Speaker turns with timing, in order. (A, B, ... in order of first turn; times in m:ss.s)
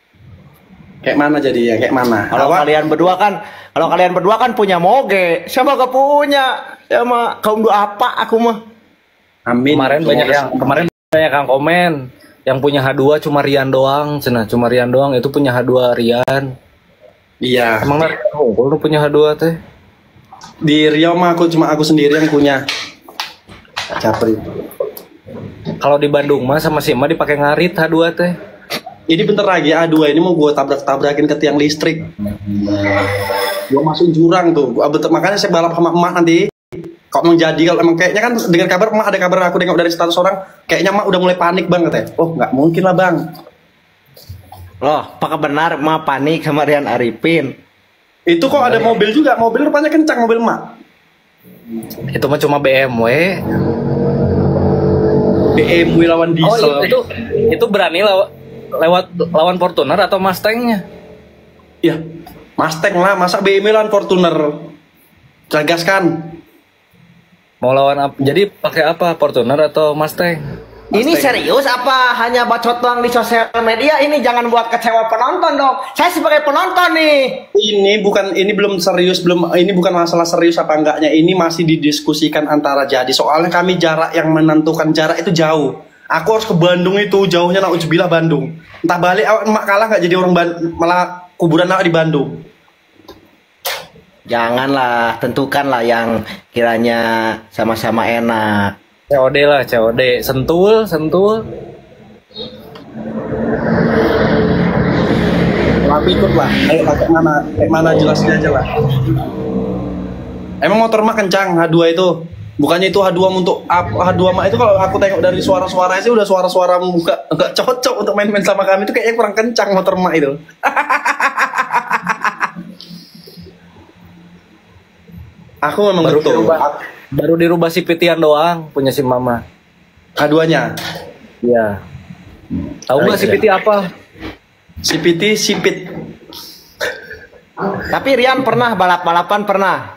0:01.0-0:02.7 A
0:02.3-0:08.6 B
0:09.5-0:10.9 A
0:09.7-0:16.5 C
0:17.4-0:18.0 A
0:17.8-0:19.6 C
0:20.6-0:22.6 A
0:24.0-0:24.4 A
0:25.8-0:28.4 C
0:29.1-0:32.1 A
0:33.7-0:36.4 A
0:37.1-0:43.2 A
0:44.8-0:47.6 B
0:48.3-0:50.6 A
0:48.6-0:49.0 C
0:52.1-0:53.4 C
0:55.6-0:57.0 A
0:56.4-0:58.3 C
0:58.8-1:00.8 C
1:02.6-1:04.7 A
1:05.5-1:06.3 A
1:07.6-1:10.4 C
1:10.9-1:11.4 A
1:10.9-1:17.4 B
1:17.5-1:32.3 A
1:34.3-1:38.8 B
1:39.1-1:41.4 C
1:45.8-1:48.7 A
1:50.6-2:02.3 A
2:05.6-2:06.7 A
2:06.0-2:09.4 C
2:10.2-2:10.7 A
2:11.4-2:11.8 C
2:12.9-2:13.9 C
2:13.0-2:13.4 A
2:14.8-2:15.8 A
2:17.9-2:19.8 B